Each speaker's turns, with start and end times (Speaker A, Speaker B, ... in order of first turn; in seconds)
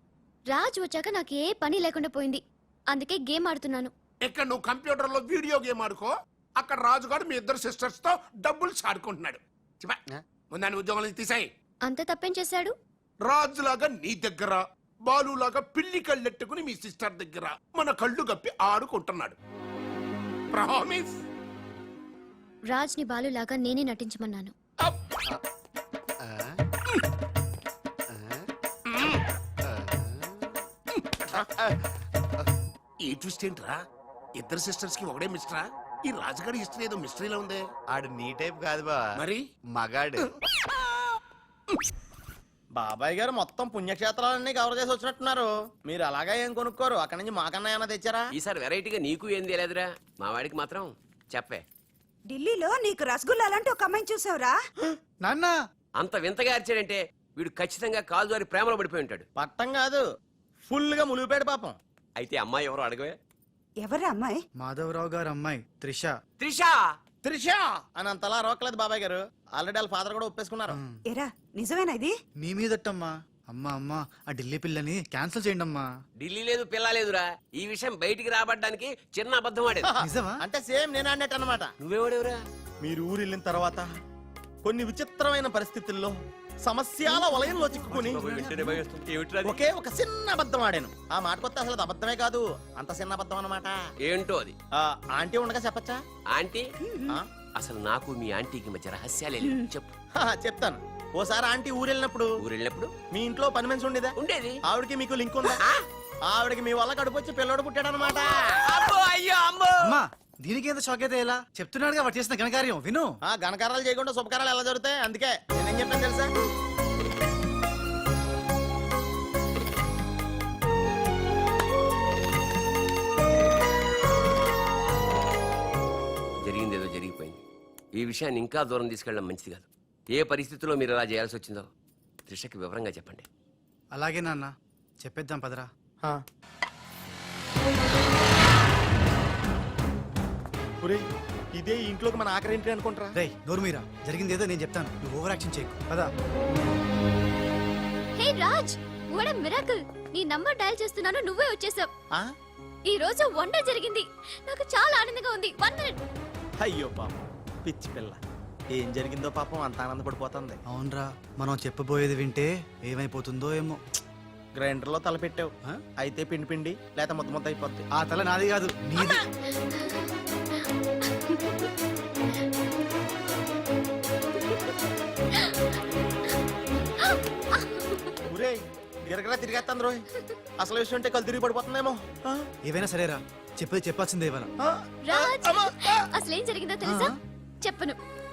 Speaker A: 0.5-3.9, 11.8-12.7, 22.7-24.5, 148.2-151.9, 152.9-156.0, 171.2-171.5, 175.3-175.6, 177.0-178.2, 185.1-188.0
Speaker B: 4.2-10.0, 10.5-11.5, 13.2-19.4, 20.5-21.1, 28.9-29.2, 31.0-31.5, 33.0-33.8, 34.4-37.7, 39.1-39.5
Speaker C: 26.2-26.5, 28.1-28.4, 29.6-30.2, 31.3-31.7, 37.9-40.2
Speaker D: 42.8-48.2, 59.4-60.0, 60.7-61.8, 67.2-70.8, 80.4-81.7, 82.8-83.8, 84.6-86.1, 86.6-88.3, 89.4-93.7, 94.8-96.0, 100.2-102.3, 103.1-104.2, 104.7-105.6, 106.3-108.6, 113.3-116.3, 141.6-143.1, 156.6-158.2, 158.7-160.6, 164.6-167.8, 178.3-180.0, 180.6-182.5, 184.6-186.1
Speaker E: 48.3-51.6, 56.0-59.2, 62.2-63.1, 66.4-66.8, 76.2-79.9, 81.8-82.4, 87.9-89.6, 94.0-94.5, 96.3-96.6, 97.6-99.9, 102.4-102.9, 104.2-104.6, 108.0-110.0, 126.4-127.4, 128.0-131.7, 132.3-133.2
Speaker F: 52.3-54.6, 63.8-64.4, 71.1-72.1, 96.8-97.2
Speaker G: 55.2-55.5, 64.6-66.2, 70.7-71.0, 72.4-75.9, 80.0-80.4, 88.3-88.8, 109.8-113.1, 133.9-135.7, 143.2-146.1, 160.7-163.8, 167.9-169.2, 182.6-184.5, 186.8-187.2